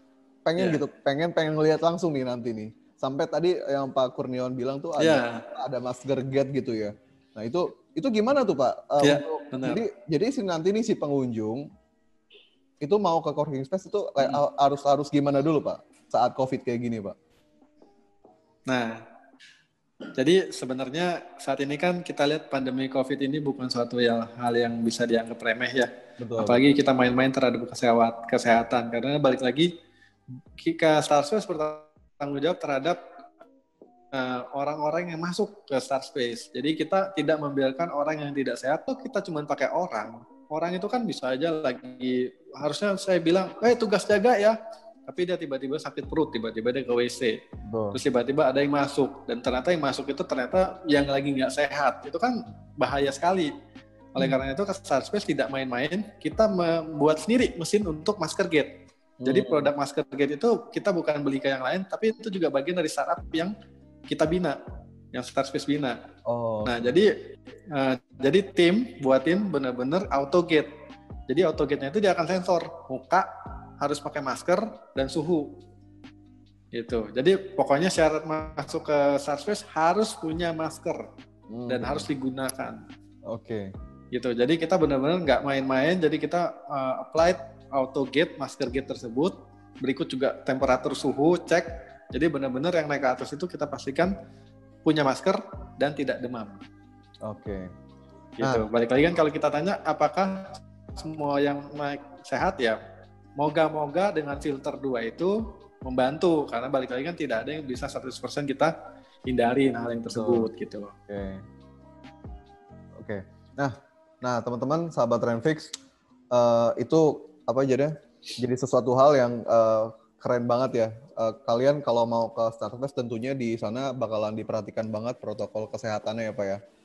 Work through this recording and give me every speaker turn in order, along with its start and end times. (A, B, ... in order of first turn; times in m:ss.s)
0:00.4-0:11.7 A
0:05.0-0:05.5 B
0:09.0-0:09.8 B
0:12.8-0:17.2 A
0:18.7-0:19.0 B
0:20.2-0:29.7 B
0:26.2-0:26.6 A
0:30.6-0:33.0 B
0:34.1-0:47.4 B
0:47.6-0:48.0 A
0:47.9-0:53.5 B
0:54.1-0:58.7 B
0:59.2-0:59.7 A
0:59.2-1:03.5 B
1:04.1-1:04.6 B
1:05.1-1:06.0 B
1:06.2-1:07.0 A
1:06.6-1:07.1 B
1:07.7-1:10.7 B
1:11.3-1:13.3 B
1:13.8-1:15.6 B
1:16.7-1:21.0 B
1:21.5-1:22.1 A
1:21.7-1:22.8 B
1:23.3-1:23.7 A
1:24.1-1:34.1 B
1:34.8-1:36.6 B
1:37.2-1:37.7 A
1:38.4-1:42.8 B
1:43.4-1:48.7 B
1:49.3-1:50.9 B
1:50.1-1:50.5 A
1:51.1-1:51.4 A
1:53.0-1:55.7 A
1:56.3-2:06.6 A